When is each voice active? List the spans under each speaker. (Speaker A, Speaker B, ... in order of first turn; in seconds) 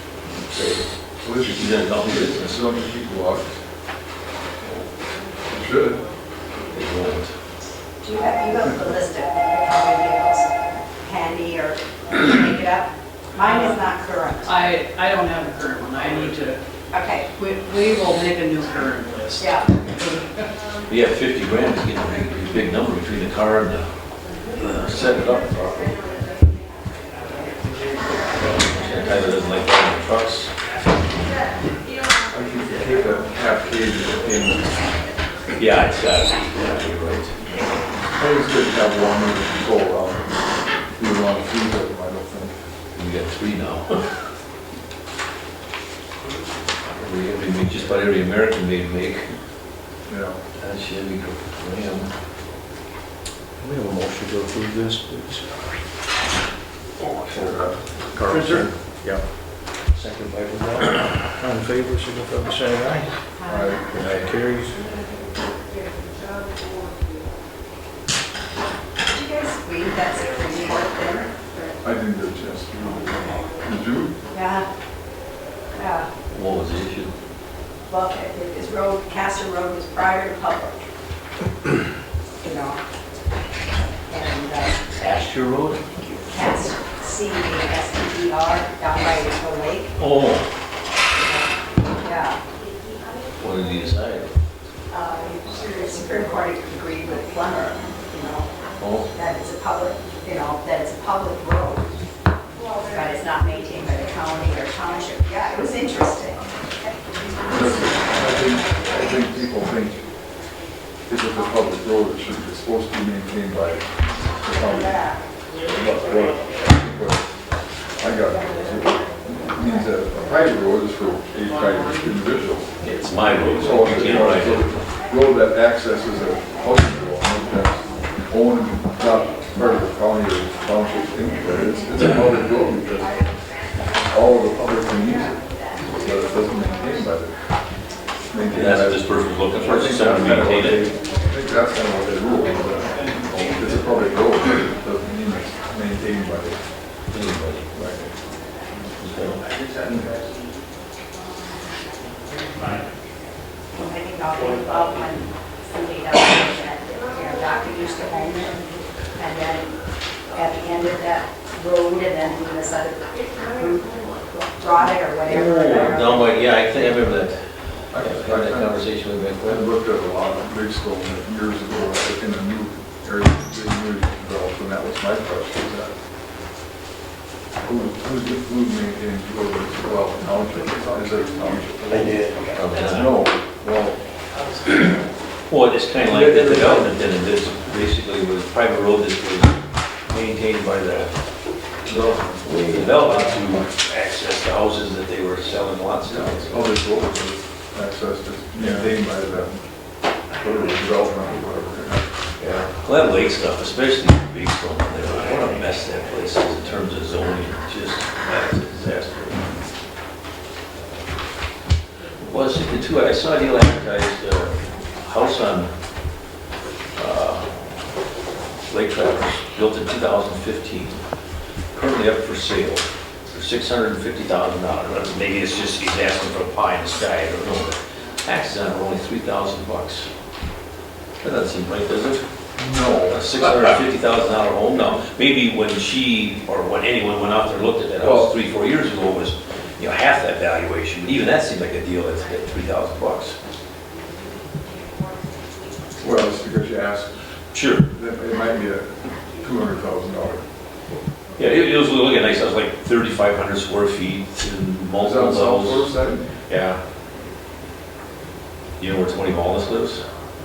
Speaker A: 0.4-0.9, 1.4-2.6, 6.7-7.3, 20.9-23.9, 24.5-25.9, 28.5-30.5, 35.6-37.5, 43.0-44.0, 47.0-49.3, 50.5-52.1, 57.2-58.7, 64.0-64.2, 76.3-77.1, 85.0-85.8, 90.0-90.4, 93.4-94.3, 98.8-99.0, 122.8-124.7, 138.5-140.8, 147.1-147.7, 149.0-150.1, 165.2-169.7, 182.5-183.1, 185.5-191.1, 191.8-196.7, 202.4-209.5, 212.2-215.7, 216.9-217.5, 218.7-221.0, 221.7-230.1, 231.2-232.2, 233.1-243.3, 247.5-247.9, 251.4-255.9, 256.5-256.8, 258.8-260.0
Speaker B: 1.2-3.6, 5.5-6.0, 32.3-34.7, 38.2-40.4, 41.0-42.5, 50.1-50.4, 63.5-64.1, 71.8-74.1, 107.5-110.0, 111.1-115.0, 115.7-117.2, 118.0-122.7, 123.6-133.2, 134.1-137.3, 138.3-139.1, 139.6-146.6, 147.7-148.1, 167.9-168.8, 169.4-175.9, 177.6-182.3, 182.8-184.0, 186.0-186.9, 191.9-192.4, 196.1-199.6, 200.4-202.0, 232.6-233.8, 238.0-238.3, 246.0-247.1, 247.9-250.4, 255.0-256.2
Speaker C: 8.0-10.5, 11.0-14.6, 16.9-17.3, 19.4-19.7, 63.4-63.9, 69.1-71.8, 74.3-74.7, 75.8-76.1, 77.9-80.8, 82.4-82.8, 84.1-84.8, 85.9-90.0, 91.1-91.5, 92.0-92.4, 94.9-98.5, 99.1-101.8, 102.8-107.7, 114.6-115.2, 153.8-158.6, 159.2-159.7, 160.3-166.3
Speaker D: 13.4-13.8, 14.4-16.6, 17.4-20.2
Speaker E: 53.6-55.5, 57.4-59.2, 60.0-63.1, 64.0-64.8, 181.9-182.3